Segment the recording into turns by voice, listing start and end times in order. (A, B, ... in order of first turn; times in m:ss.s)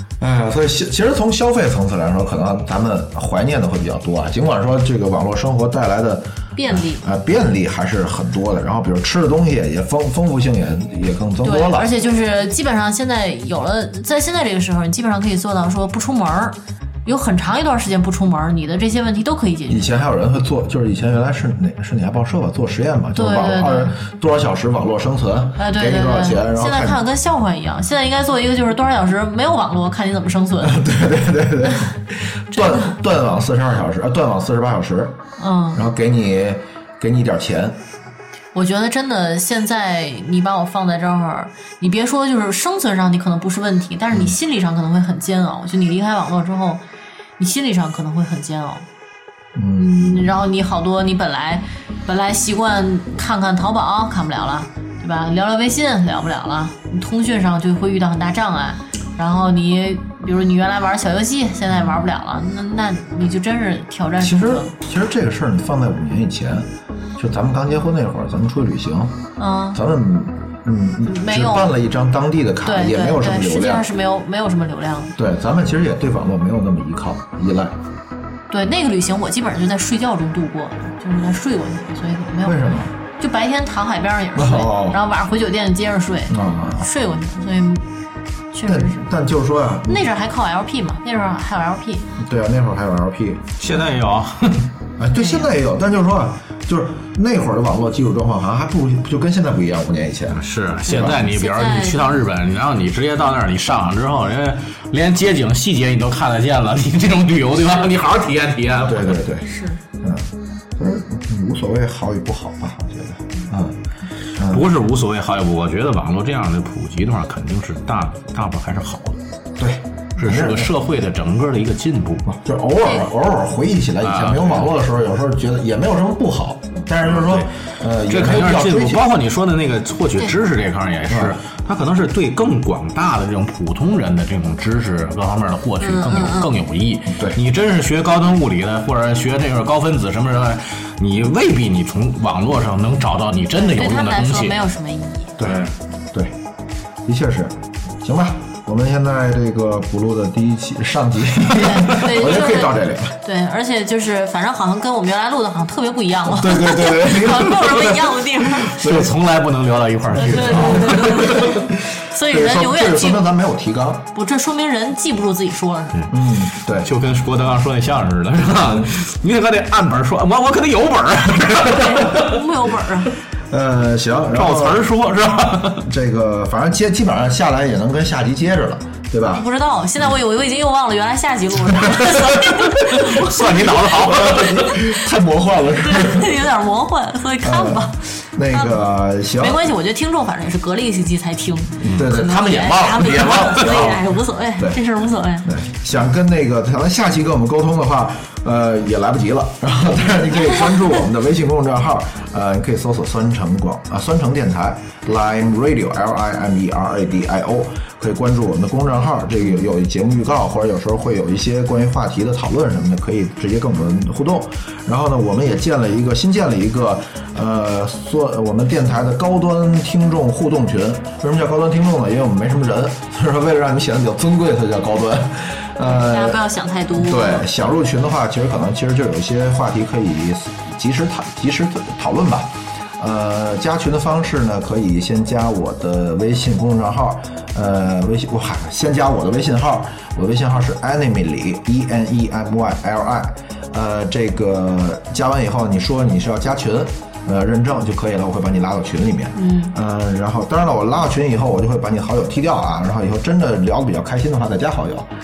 0:00.2-0:11.9 A
0:06.5-0:07.0 B
0:11.4-0:20.0 B
0:19.7-0:27.0 A
0:23.1-0:23.9 B
0:25.6-0:30.8 B
0:30.6-0:35.2 A
0:32.5-0:32.9 B
0:35.4-0:35.8 B
0:35.7-0:37.8 A
0:38.5-0:46.8 B
0:47.4-0:48.8 B
0:49.6-0:50.4 A
0:49.8-1:04.7 B
1:01.7-1:02.0 A
1:04.2-1:09.1 A
1:09.4-1:09.8 B
1:09.7-1:13.8 A
1:11.0-1:11.7 B
1:12.6-1:15.1 B
1:15.2-1:17.8 A
1:18.5-1:22.6 B
1:22.4-1:22.9 A
1:23.2-1:27.9 B
1:24.4-1:25.0 A
1:26.3-1:26.9 A
1:28.5-1:29.1 B
1:28.6-1:30.1 A
1:29.9-1:32.1 B
1:32.2-1:33.4 A
1:33.6-1:34.7 C
1:35.0-1:41.2 A
1:35.1-1:35.5 B
1:40.3-1:49.2 C
1:41.0-1:42.0 B
1:48.8-1:49.5 A
1:49.4-1:49.8 B
1:50.0-1:53.8 A
1:54.3-1:59.2 C
1:54.4-1:54.6 A
1:59.6-2:00.7 A
2:00.2-2:02.3 C
2:02.3-2:09.0 A
2:04.0-2:04.7 C
2:07.0-2:24.6 C
2:11.1-2:11.4 A
2:15.8-2:16.5 B
2:23.6-2:25.3 B
2:25.4-2:26.3 A
2:25.4-2:25.7 C
2:27.0-2:33.2 A
2:31.6-2:38.8 B
2:36.2-2:38.1 A
2:38.7-2:41.4 C
2:38.7-2:39.1 A
2:40.1-2:44.1 A
2:40.2-2:43.3 B
2:44.1-2:46.0 B
2:45.9-2:52.4 C
2:46.1-2:46.9 A
2:51.6-2:53.1 B
2:53.5-2:54.9 A
2:54.3-2:55.8 C
2:55.8-2:59.4 A
2:59.2-3:03.8 B
3:02.2-3:04.8 C
3:03.8-3:06.5 A
3:05.8-3:08.8 B
3:07.4-3:09.7 A
3:09.4-3:15.5 B
3:11.8-3:14.0 A
3:11.8-3:12.1 C
3:15.4-3:46.4 A
3:45.8-3:47.5 B
3:46.9-4:15.1 A
4:09.3-4:09.7 B